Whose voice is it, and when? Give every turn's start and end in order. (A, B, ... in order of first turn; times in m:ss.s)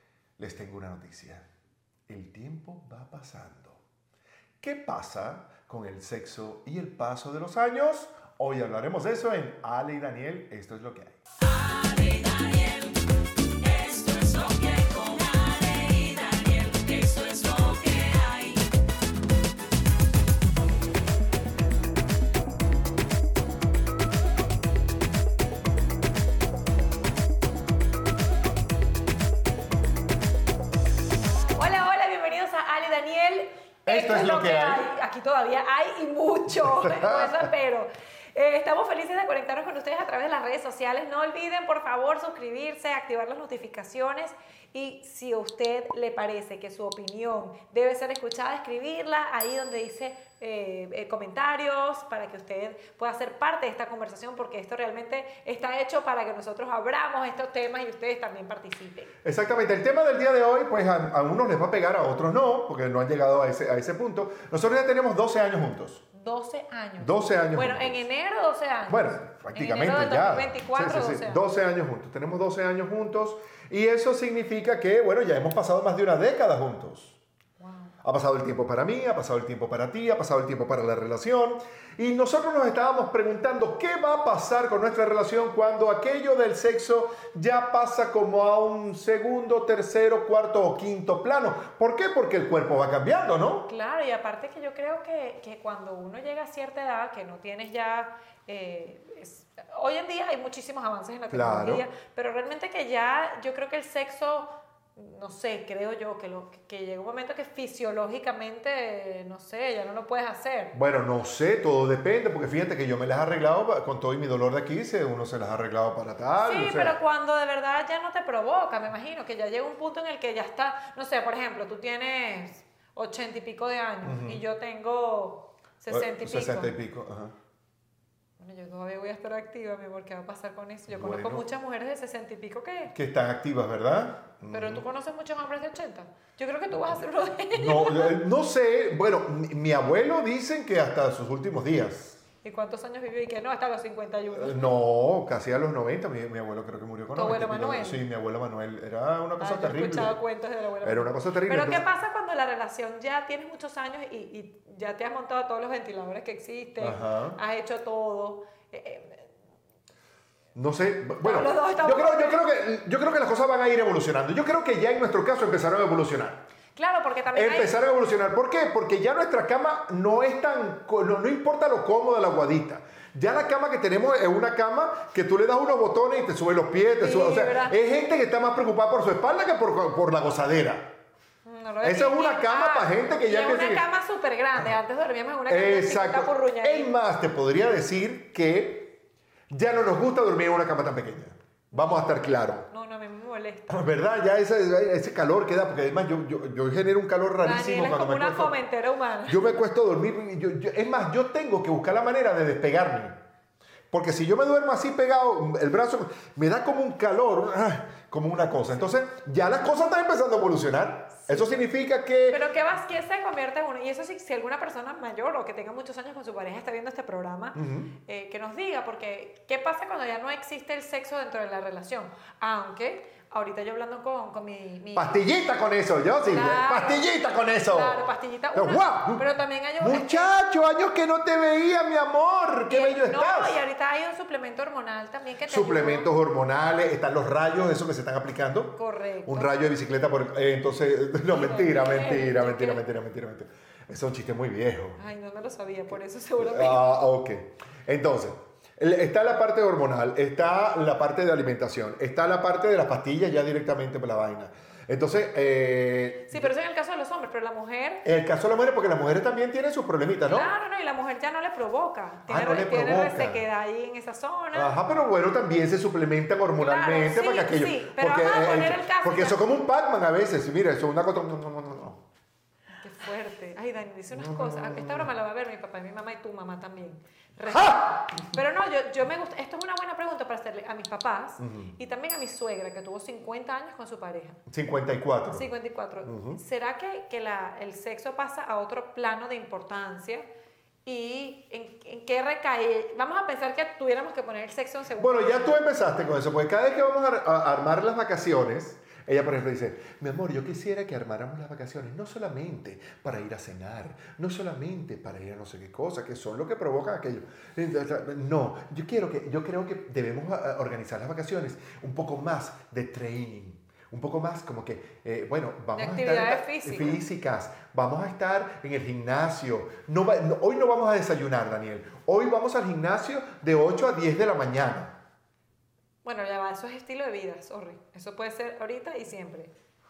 0:00.4-0:01.5 A
0:02.1-0:03.8 A
0:04.6-0:11.2 A
0:12.0-0:12.8 B
0:13.8-0:18.3 B
0:31.5-0:59.1 C
0:33.9-0:34.8 A
0:36.6-0:37.5 A
0:59.2-1:06.0 A
1:06.1-1:11.4 C
1:07.0-1:08.0 A
1:08.9-1:17.2 A
1:17.6-1:17.9 C
1:18.0-1:33.7 A
1:33.7-1:50.7 C
1:41.3-1:41.8 A
1:50.7-1:57.0 A
1:56.4-2:06.7 C
2:04.0-2:04.4 A
2:05.9-2:07.3 A
2:08.4-2:12.9 C
2:10.9-2:11.4 A
2:12.9-2:14.8 A
2:14.5-2:18.2 C
2:17.5-2:22.2 A
2:22.4-2:24.8 C
2:24.3-2:30.2 A
2:27.1-2:28.0 C
2:29.4-2:39.3 C
2:30.8-2:31.8 A
2:36.8-2:37.4 A
2:40.6-2:46.4 A
2:41.2-2:42.4 C
2:46.8-2:47.8 C
2:47.3-3:00.9 A
2:57.0-2:57.8 C
3:01.4-3:06.9 C
3:01.8-3:03.8 A
3:05.5-3:09.0 A
3:09.5-3:12.7 A
3:11.7-3:13.8 C
3:13.7-3:18.6 A
3:17.4-3:19.6 C
3:19.3-3:23.2 A
3:23.9-3:32.4 A
3:31.3-3:31.6 C
3:32.3-3:45.2 C
3:37.6-3:37.9 A
3:45.0-3:48.0 A
3:46.2-3:50.3 C
3:48.6-3:49.3 A
3:49.8-3:53.6 A
3:52.7-3:56.1 C
3:55.5-4:05.0 A
3:58.8-3:59.6 C
4:01.3-4:02.8 C
4:05.0-4:06.9 C
4:06.4-4:16.5 A
4:16.3-4:18.0 C
4:18.0-4:20.5 A
4:20.3-4:24.7 C
4:22.3-4:23.4 A
4:24.5-4:32.0 A
4:26.6-4:29.4 C
4:32.8-4:44.4 C
4:34.1-4:35.1 A
4:41.4-4:41.7 A
4:44.5-4:45.5 A
4:45.3-4:50.2 C
4:46.0-4:46.4 A
4:50.8-4:55.6 C
4:55.0-5:25.0 A
5:15.8-5:17.0 C
5:26.0-5:29.5 C